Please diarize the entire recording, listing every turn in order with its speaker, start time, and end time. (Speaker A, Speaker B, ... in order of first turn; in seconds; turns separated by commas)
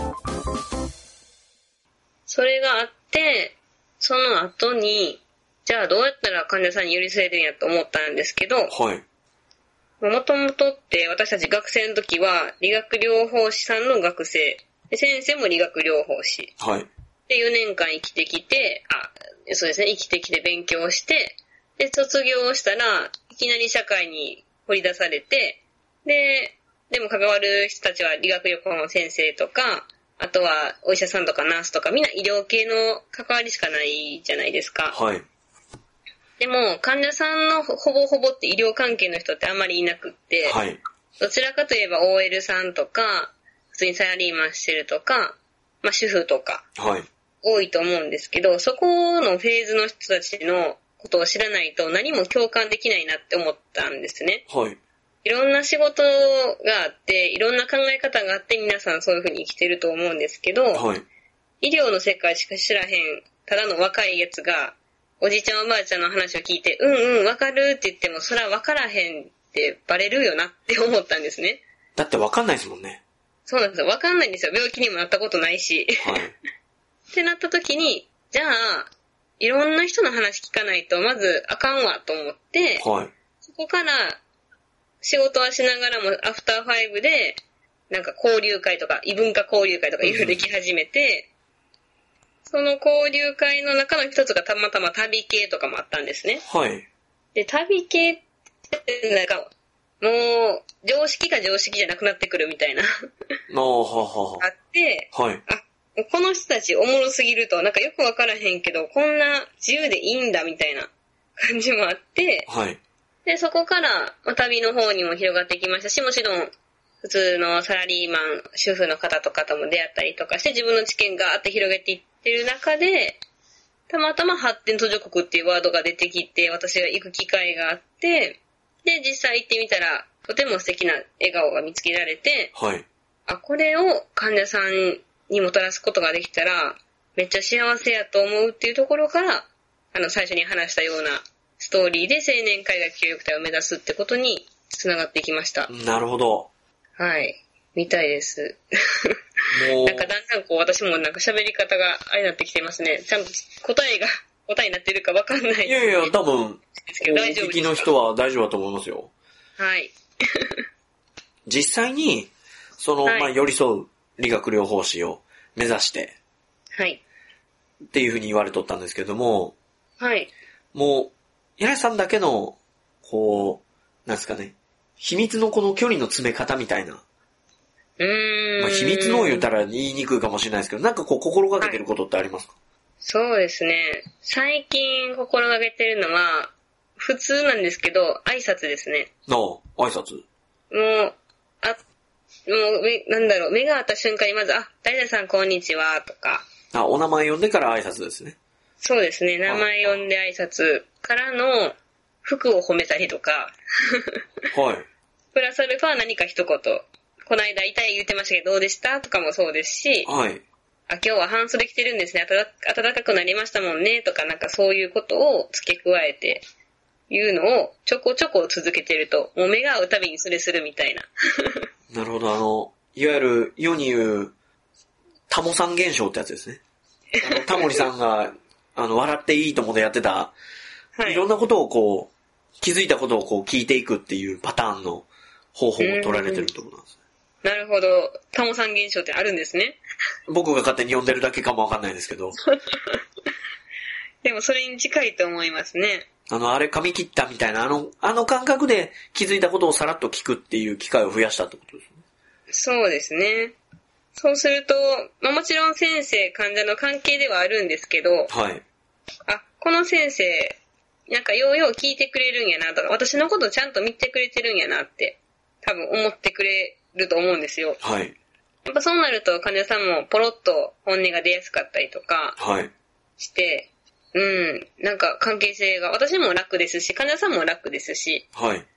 Speaker A: 2.3-8.8, Speaker B: 8.7-9.0, Speaker A: 10.0-16.5, Speaker B: 16.6-16.9, Speaker A: 17.3-35.0, Speaker B: 34.9-35.2, Speaker A: 36.4-40.6, Speaker B: 40.4-40.8, Speaker A: 41.2-46.6, Speaker B: 46.8-47.1, Speaker A: 47.4-54.4, Speaker B: 54.5-54.8, Speaker A: 55.2-60.9, Speaker B: 60.7-61.0, Speaker A: 61.6-71.6, Speaker B: 72.0-73.0, Speaker A: 73.5-76.2, Speaker B: 76.0-76.3, Speaker A: 77.1-82.8, Speaker B: 82.8-83.1, Speaker A: 83.4-84.2, Speaker A: 85.0-91.3, Speaker B: 90.0-90.4, Speaker A: 92.5-96.4, Speaker B: 96.5-96.9, Speaker A: 97.3-102.9, Speaker B: 103.5-104.5, Speaker A: 104.4-112.5, Speaker B: 105.1-105.4, Speaker B: 112.5-112.8, Speaker A: 113.2-116.5, Speaker A: 117.0-123.2, Speaker A: 123.9-132.5, Speaker B: 132.5-132.8, Speaker A: 133.3-145.7, Speaker B: 145.7-146.5, Speaker A: 147.0-149.1, Speaker B: 149.5-150.1, Speaker A: 149.8-156.1, Speaker B: 155.7-159.1, Speaker A: 156.9-157.9, Speaker A: 159.6-160.6, Speaker B: 161.5-166.2, Speaker A: 163.0-163.3, Speaker A: 166.7-167.0, Speaker B: 167.9-169.6, Speaker A: 170.0-170.3, Speaker B: 170.7-177.0, Speaker A: 178.0-179.5, Speaker B: 178.6-182.6, Speaker A: 183.0-189.1, Speaker B: 189.3-190.2, Speaker A: 190.7-191.8, Speaker A: 192.5-196.5, Speaker B: 196.7-198.4, Speaker A: 198.8-204.2, Speaker B: 199.5-200.0, Speaker B: 204.5-204.8, Speaker A: 205.3-210.1, Speaker B: 210.1-210.4, Speaker A: 210.9-216.4, Speaker A: 217.1-221.7, Speaker B: 221.9-224.3, Speaker B: 225.3-226.6, Speaker B: 227.2-230.3, Speaker A: 227.2-227.8, Speaker A: 231.0-231.2, Speaker B: 231.1-236.9, Speaker A: 235.8-236.5, Speaker A: 237.4-239.8, Speaker B: 240.3-242.4, Speaker A: 242.7-243.0, Speaker A: 244.2-246.1, Speaker B: 246.3-252.0, Speaker A: 252.5-253.6, Speaker A: 254.2-258.3, Speaker B: 258.3-258.6, Speaker A: 259.3-267.8, Speaker B: 267.8-268.1, Speaker A: 268.6-272.4, Speaker B: 272.4-272.7, Speaker A: 273.2-278.2, Speaker B: 278.3-278.6